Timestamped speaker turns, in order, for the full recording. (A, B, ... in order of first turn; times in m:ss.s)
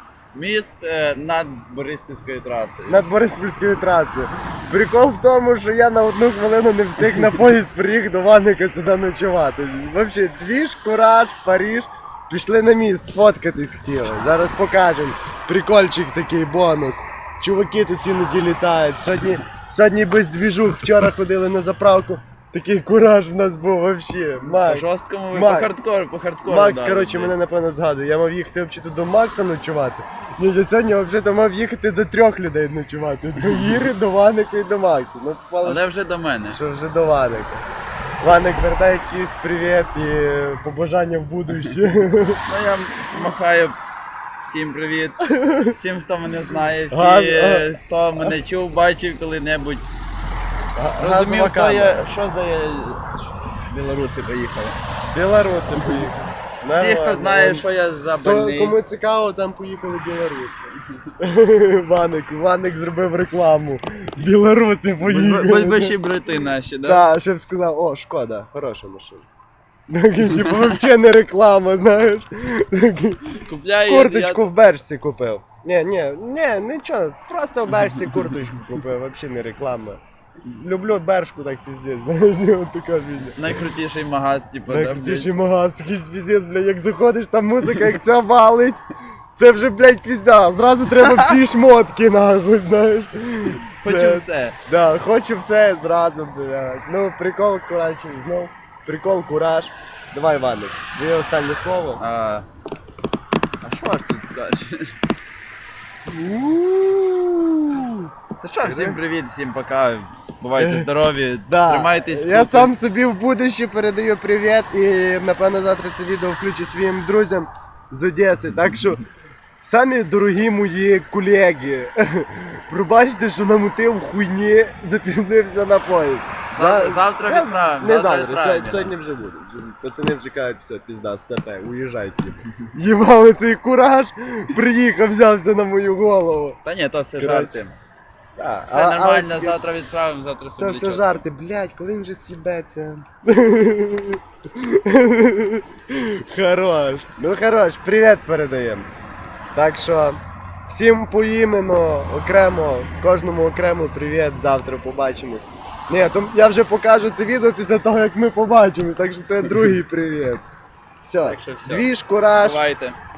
0:00.3-0:03.0 A
0:02.9-0:25.8 B
0:24.5-0:27.3 A
0:26.4-0:35.9 B
0:35.6-0:36.6 A
0:36.5-0:37.6 B
0:38.2-0:42.4 B
0:42.4-0:43.8 A
0:44.4-0:49.8 A
0:45.3-0:45.8 B
0:46.9-0:48.3 B
0:50.8-0:52.0 B
0:51.0-0:53.2 A
0:53.7-0:54.8 A
0:55.1-1:06.0 B
0:56.7-0:58.8 A
1:05.0-1:07.0 A
1:06.8-1:09.2 B
1:09.9-1:23.4 B
1:13.4-1:14.4 A
1:23.4-1:25.3 A
1:24.7-1:28.8 B
1:29.3-1:42.0 B
1:33.8-1:34.6 A
1:42.0-1:42.4 A
1:43.6-1:44.9 A
1:46.0-1:48.1 B
1:48.4-1:52.7 A
1:48.6-1:49.0 B
1:50.6-1:50.9 B
1:51.5-1:59.0 B
1:59.6-2:16.6 B
2:06.5-2:08.9 A
2:16.6-2:17.7 A
2:17.2-2:17.6 B
2:18.4-2:19.6 B
2:18.7-2:21.2 A
2:20.6-2:28.9 B
2:29.5-2:40.4 B
2:41.0-2:42.6 B
2:41.2-2:43.0 A